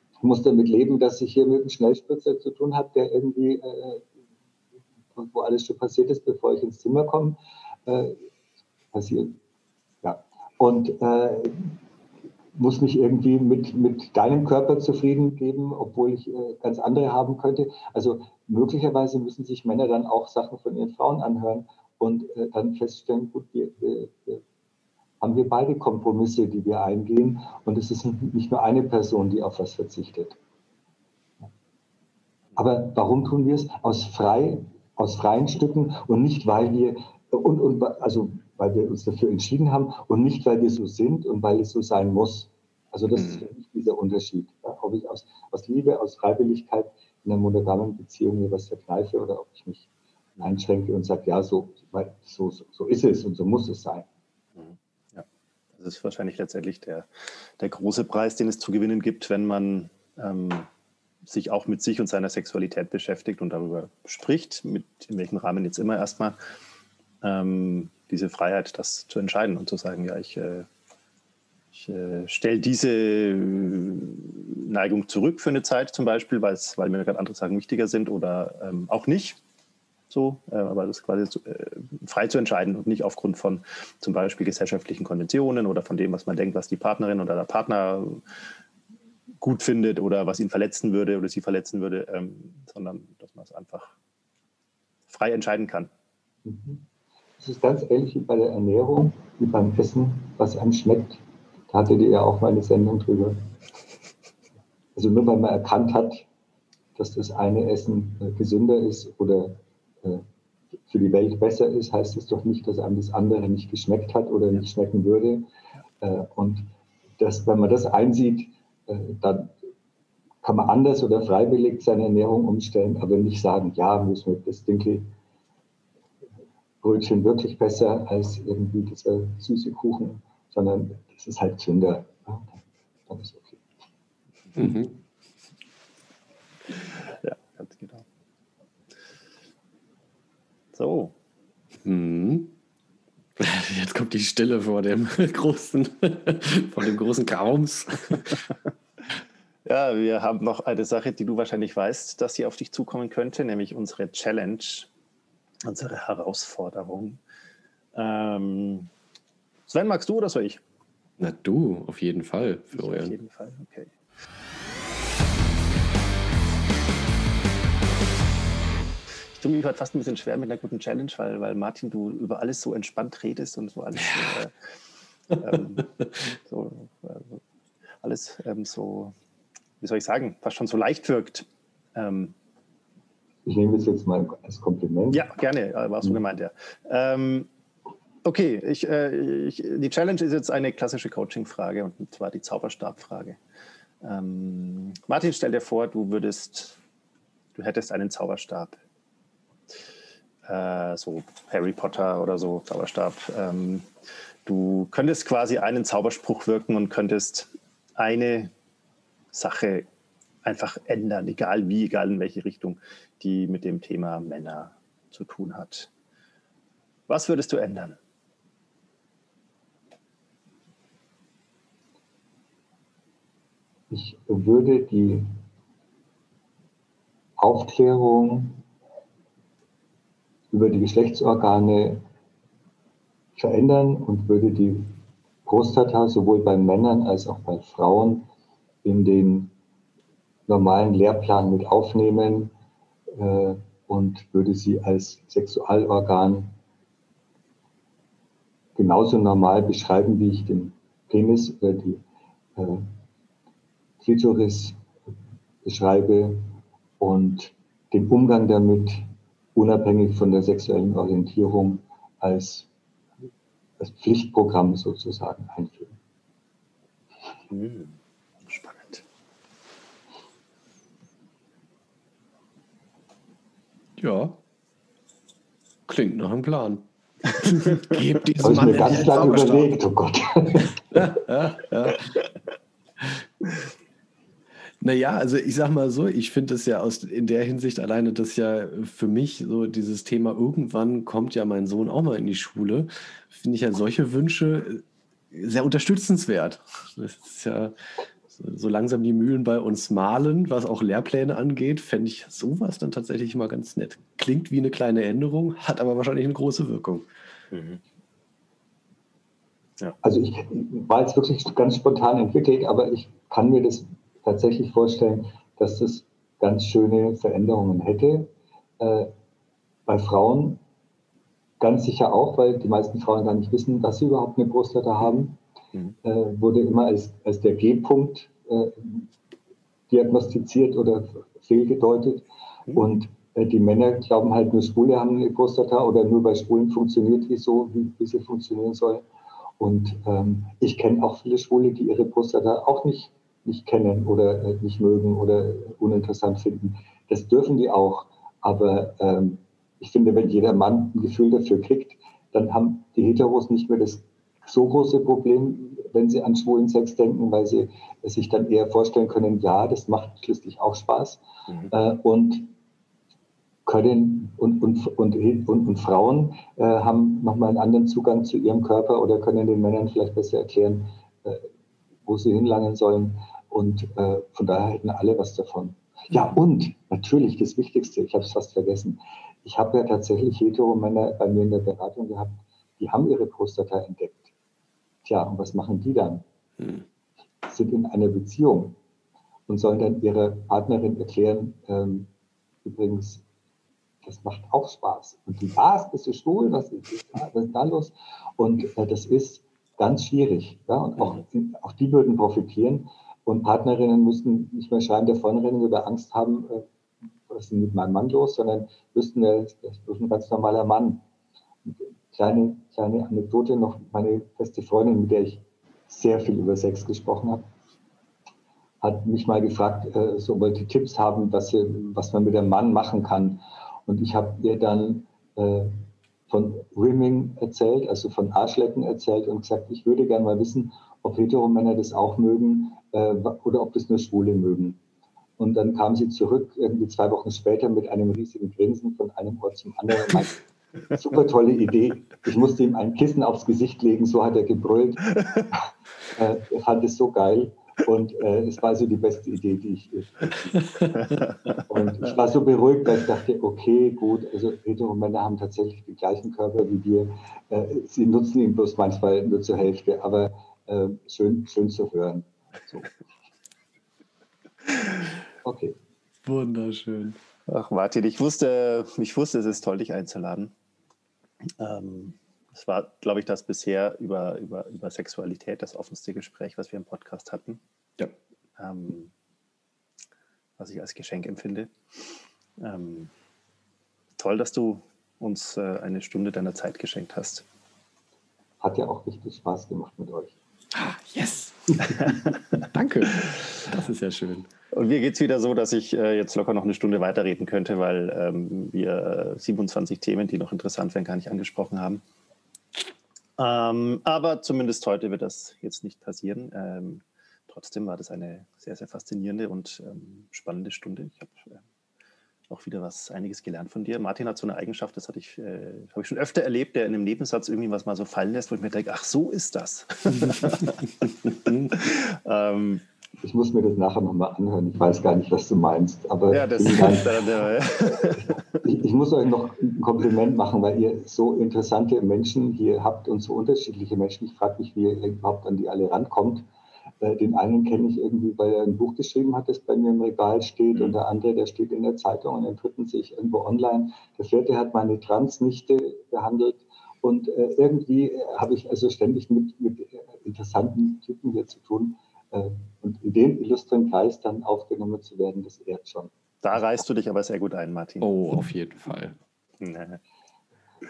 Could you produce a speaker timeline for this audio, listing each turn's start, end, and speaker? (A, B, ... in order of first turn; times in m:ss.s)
0:00.2-0:04.1 A
0:05.2-0:08.2 A
0:08.9-0:09.4 A
0:10.0-0:11.8 A
0:12.6-0:24.4 A
0:25.2-0:30.4 A
0:32.6-0:49.9 A
0:50.4-0:54.1 A
0:54.6-0:55.2 B
0:55.8-1:00.7 B
1:01.2-1:06.4 B
1:07.2-1:10.7 B
1:11.7-1:19.4 B
1:20.1-1:28.4 B
1:29.4-1:33.9 B
1:35.1-1:35.9 B
1:36.4-1:36.8 A
1:37.4-1:43.5 A
1:45.0-1:46.3 A
1:47.0-1:50.2 A
1:50.9-1:55.5 A
1:56.0-1:56.7 A
1:57.2-1:59.6 A
2:00.4-2:05.1 A
2:06.8-2:12.6 A
2:13.1-2:13.6 A
2:14.6-2:15.0 C
2:17.0-2:18.0 B
2:20.7-2:21.1 B
2:21.8-2:22.5 C
2:23.4-2:28.4 C
2:29.7-2:34.9 B
2:35.6-2:37.2 B
2:37.9-2:38.9 B
2:39.7-2:40.6 B
2:41.2-2:43.2 C
2:42.8-2:43.9 B
2:49.3-2:54.5 B
2:55.3-2:57.4 B
2:58.0-2:59.1 B
2:59.8-3:02.4 B
3:03.4-3:05.2 A
3:05.1-3:07.5 B
3:08.2-3:13.4 B
3:14.0-3:16.8 B
3:17.6-3:18.8 B
3:20.4-3:23.9 B
3:24.5-3:28.5 B
3:29.3-3:29.9 B
3:30.4-3:35.9 B
3:37.1-3:38.0 B
3:43.9-3:45.3 A
3:47.4-3:48.6 A
3:50.5-3:52.0 A
3:53.4-3:58.3 A
3:58.8-3:59.5 A
4:00.5-4:02.5 A
4:03.1-4:06.5 A
4:08.8-4:12.0 A
4:12.6-4:12.9 A
4:14.0-4:14.8 A
4:15.6-4:16.5 A
4:17.0-4:22.7 A
4:23.8-4:26.0 A
4:27.5-4:29.0 B
4:34.0-4:34.4 C
4:35.9-4:36.8 C
4:37.4-4:39.7 C
4:38.4-4:41.2 A
4:40.9-4:42.1 C
4:44.8-4:57.8 C
4:58.3-5:07.1 C
5:07.5-5:07.8 B
5:10.0-5:19.1 A
5:19.9-5:20.6 A
5:21.6-5:25.4 A
5:26.0-5:29.1 A
5:29.9-5:39.0 A
5:39.6-6:02.5 A
6:03.7-6:11.5 A
6:12.1-6:24.3 A
6:25.0-6:26.2 A
6:27.5-6:28.8 A
6:29.5-6:32.1 A
6:32.6-6:33.2 A
6:34.0-6:46.7 A
6:47.3-6:51.0 A
6:51.7-6:57.5 A
6:58.8-7:14.8 A
7:15.4-7:20.3 A
7:20.9-7:25.2 A
7:26.1-7:31.1 A
7:31.7-7:42.9 A
7:45.4-7:45.8 A
7:46.2-7:47.2 C
7:47.5-7:50.5 B
7:51.6-7:57.6 B
7:58.6-7:59.1 B
8:00.6-8:02.0 B
8:02.6-8:03.1 B
8:04.2-8:07.4 B
8:08.6-8:10.4 A
8:10.7-8:14.5 C
8:14.7-8:22.0 B
8:23.4-8:31.6 B
8:32.5-8:42.8 B
8:41.5-8:41.7 C
8:43.2-8:47.1 A
8:46.3-8:48.4 B
8:47.9-8:56.4 A
8:57.0-9:16.1 A
9:16.4-9:18.1 B
9:18.0-9:19.2 C
9:19.6-9:20.0 B